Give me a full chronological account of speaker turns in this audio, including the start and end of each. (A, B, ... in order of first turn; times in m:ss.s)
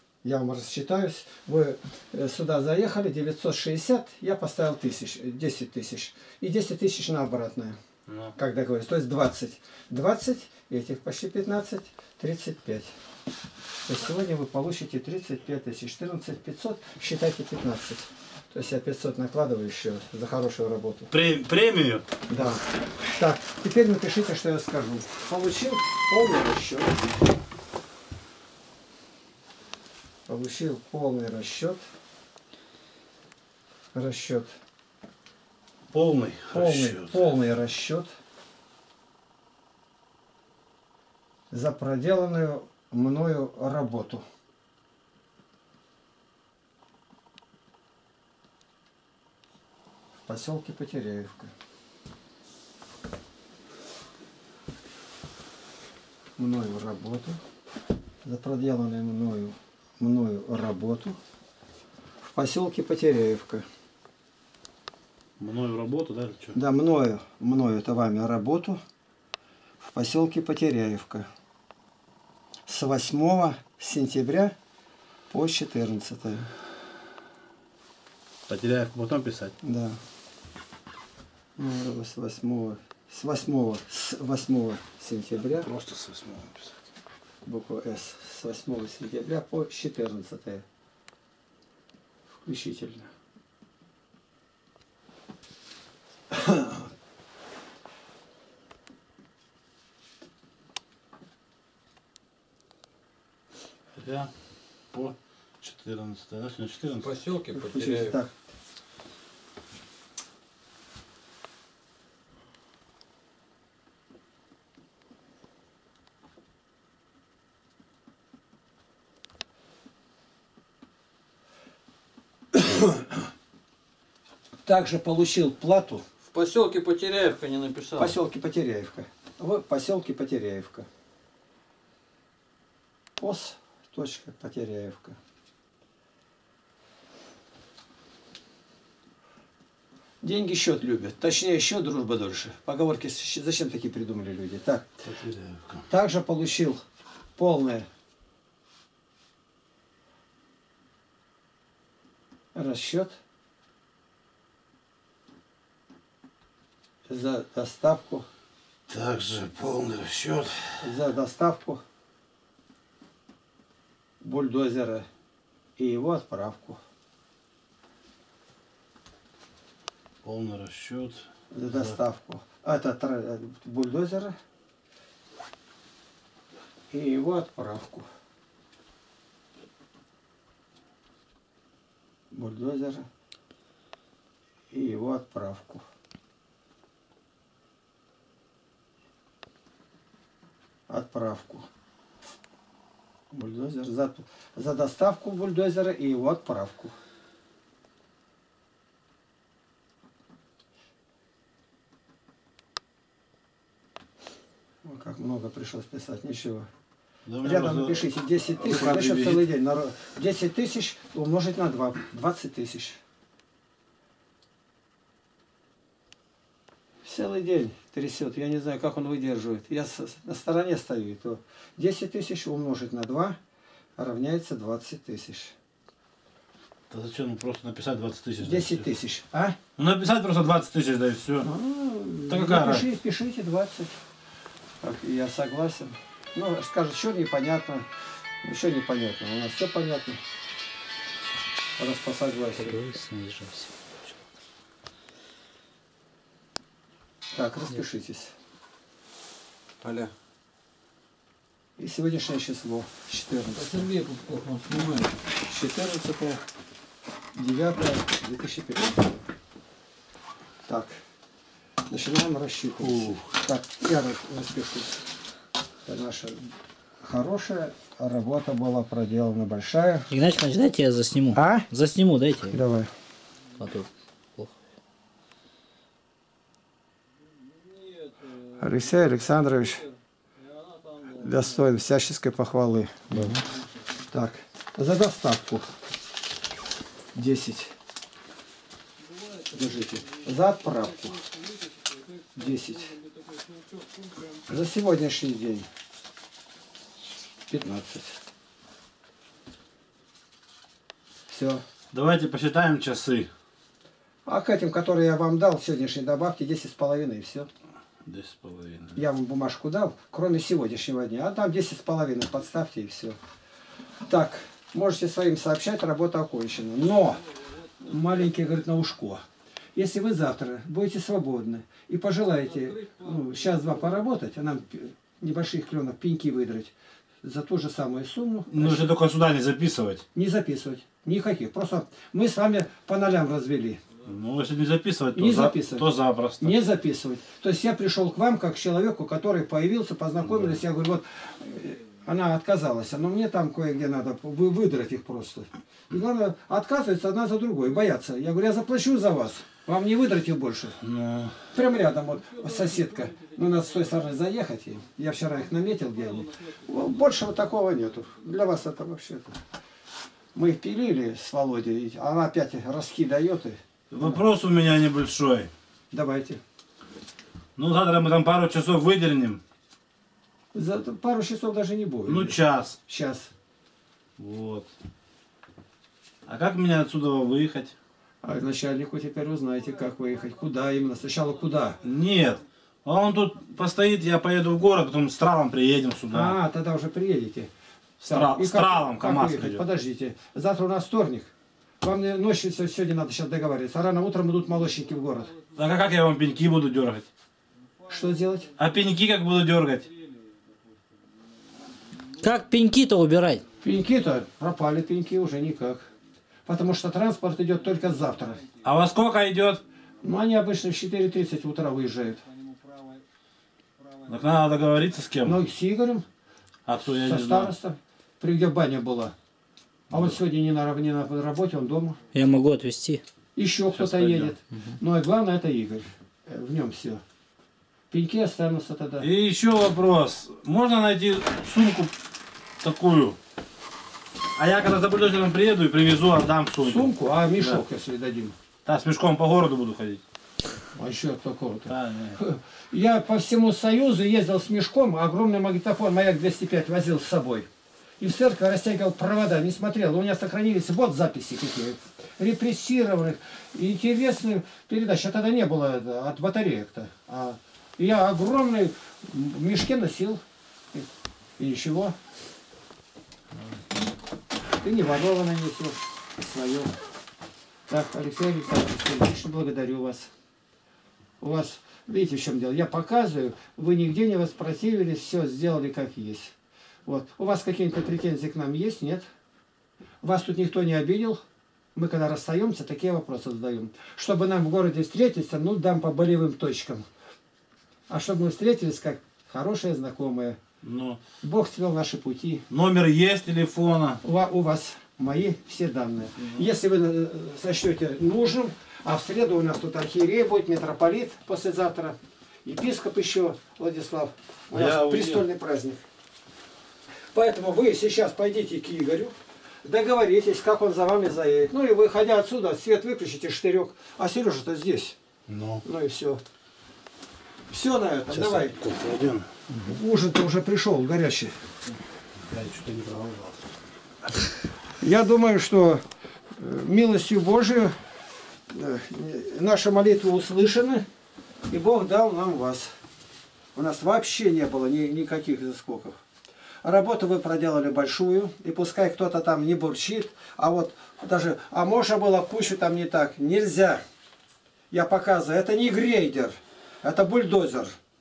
0:00.2-0:07.8 A
0:08.1-0:08.3 B
0:08.4-0:12.9 A
0:13.9-0:21.1 A
0:21.1-0:22.1 B
0:22.3-0:27.0 A
0:30.3-0:31.8 A
0:33.9-0:34.5 A
0:35.9-0:37.3 B
0:36.5-0:38.1 A
0:41.5-0:44.2 A
0:50.3-0:51.5 A
0:56.4-0:57.4 A
0:58.2-1:01.2 A
1:02.2-1:03.7 A
1:05.4-1:06.6 B
1:06.5-1:08.8 A
1:09.8-1:11.3 A
1:12.7-1:14.6 A
1:15.3-1:16.5 A
1:18.5-1:19.6 B
1:19.6-1:20.0 A
1:21.6-1:25.7 A
1:25.4-1:26.8 B
1:27.4-1:30.6 A
1:32.4-1:33.1 A
1:36.3-1:36.8 A
1:44.0-1:47.2 B
1:47.0-1:48.2 C
1:47.5-1:48.3 A
2:02.6-2:02.9 A
2:04.6-2:06.0 A
2:06.3-2:08.2 C
2:08.0-2:10.9 A
2:13.2-2:15.2 A
2:20.2-2:24.9 A
2:25.0-2:25.8 B
2:25.9-2:26.8 A
2:27.4-2:27.9 A
2:32.5-2:33.2 A
2:37.1-2:38.3 A
2:38.9-2:40.9 B
2:40.8-2:41.8 A
2:44.2-2:45.1 A
2:45.8-2:46.8 A
2:50.2-2:52.0 B
2:51.5-2:54.3 A
2:56.9-2:58.1 A
3:02.3-3:03.1 A
3:04.7-3:05.8 A
3:10.9-3:11.7 A
3:13.3-3:17.0 A
3:24.8-3:26.7 A
3:27.3-3:29.5 B
3:27.4-3:33.0 A
3:37.0-3:43.4 A
3:44.0-3:45.5 A
3:46.9-3:48.9 B
3:48.4-3:49.6 A
3:49.8-3:51.5 B
3:51.4-3:54.0 A
3:52.3-3:52.9 B
3:54.8-3:57.9 A
3:58.4-4:00.2 A
4:01.8-4:02.8 A
4:02.6-4:04.1 D
4:07.3-4:08.3 A
4:09.8-4:10.1 C
4:11.8-4:13.8 A
4:13.6-4:15.1 C
4:15.4-4:16.4 A
4:17.4-4:19.2 A
4:20.7-4:21.0 A
4:21.9-4:25.0 A
4:22.8-4:23.3 B
4:25.9-4:26.4 A
4:27.0-4:30.1 A
4:30.1-4:32.6 D
4:31.3-4:31.7 A
4:32.5-4:32.9 A
4:33.6-4:34.5 D
4:37.6-4:38.6 C
4:38.6-4:39.8 A
4:40.4-4:41.4 C
4:41.1-4:43.4 A
4:44.1-4:45.7 A
4:47.1-4:47.7 A
4:49.5-4:51.2 A
4:51.6-4:52.0 C
4:52.4-4:53.0 A
4:53.5-4:53.9 C
4:54.5-4:55.7 A
4:57.5-4:58.2 A
5:01.3-5:01.6 A
5:01.9-5:03.3 B
5:04.2-5:07.5 A
5:08.0-5:09.0 B
5:09.0-5:13.2 A
5:14.1-5:17.2 A
5:17.8-5:19.2 A
5:19.8-5:28.9 A
5:28.5-5:30.0 B
5:30.1-5:33.8 A
5:34.0-5:36.6 B
5:35.2-5:35.9 A
5:36.4-5:50.8 A
5:40.2-5:40.6 B
5:50.8-5:51.4 B
5:51.5-5:59.4 A
6:00.3-6:04.2 A
6:03.9-6:05.5 B
6:05.9-6:06.4 A
6:07.6-6:09.4 B
6:10.5-6:13.3 A
6:12.1-6:12.8 B
6:14.2-6:14.7 B
6:16.3-6:17.7 B
6:18.2-6:21.8 A
6:21.8-6:26.4 B
6:26.1-6:27.5 A
6:28.0-6:29.6 B
6:28.1-6:35.4 A
6:35.5-6:37.1 B
6:37.9-6:38.5 A
6:38.6-6:39.9 B
6:42.2-6:43.4 D
6:43.6-6:45.9 A
6:46.5-6:48.4 A
6:48.6-6:49.6 B
6:50.0-6:52.2 A
6:54.1-6:55.4 B
6:55.2-6:56.0 A
6:56.7-6:57.5 B
6:56.8-6:59.1 A
6:59.9-7:00.2 B
6:59.9-7:02.0 A
7:02.1-7:03.0 D
7:03.4-7:07.0 A
7:03.7-7:04.3 B
7:07.9-7:09.1 A
7:09.0-7:11.9 B
7:12.6-7:13.2 B
7:14.4-7:17.6 B
7:16.6-7:18.4 A
7:18.6-7:20.0 B
7:20.7-7:27.5 A
7:21.7-7:22.2 B
7:28.0-7:40.2 A
7:40.7-7:42.0 A
7:44.6-7:46.7 A
7:47.7-7:50.1 A
7:51.2-7:56.3 A
7:56.9-7:59.1 A
8:00.0-8:01.2 A
8:01.8-8:06.9 A
8:07.9-8:10.4 A
8:10.6-8:11.0 B
8:11.2-8:12.5 A
8:12.5-8:14.0 B
8:14.0-8:25.8 A
8:24.5-8:25.3 B
8:27.1-8:35.0 A
8:35.3-8:35.6 B
8:35.6-8:36.2 A
8:37.5-8:38.6 A
8:38.1-8:39.3 B
8:39.5-8:41.3 A
8:42.3-8:43.4 B
8:44.8-8:45.8 A
8:46.3-8:47.7 A
8:48.5-8:50.9 A
8:51.5-8:52.7 A
8:53.6-8:56.0 A
8:56.6-9:03.8 A
9:04.7-9:07.7 A